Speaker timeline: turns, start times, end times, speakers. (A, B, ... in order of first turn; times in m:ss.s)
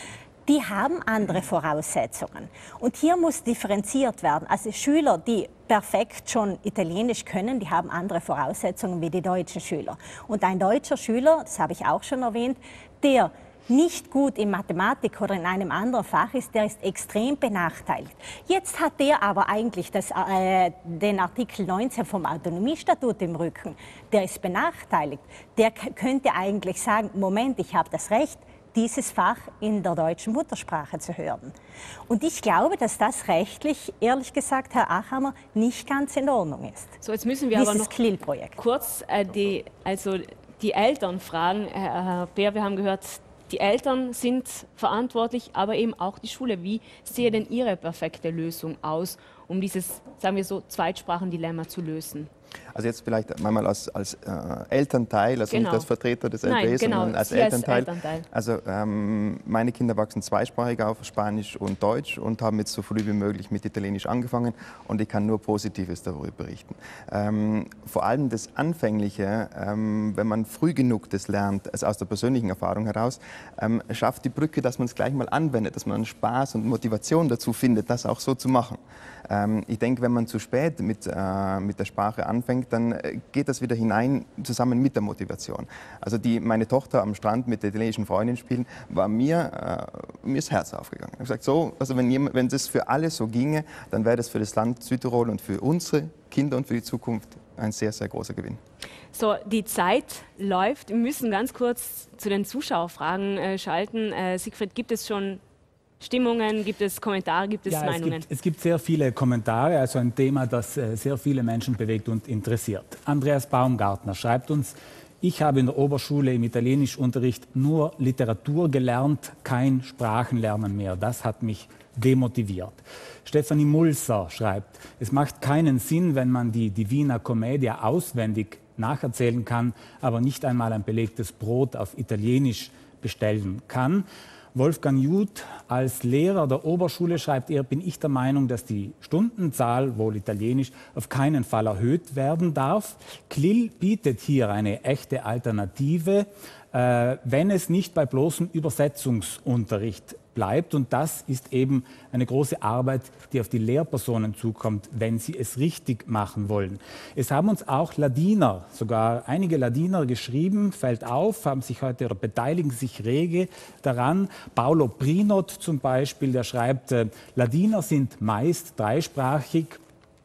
0:00.5-0:31.5 A
0:32.1-0:37.0 A
0:37.0-0:38.0 B
0:37.5-0:38.6 A
0:38.6-0:52.3 B
0:52.7-1:38.6 C
0:55.5-0:55.9 B
0:56.4-0:58.3 B
1:39.1-1:45.4 B
1:46.0-1:48.2 B
1:47.7-2:49.8 D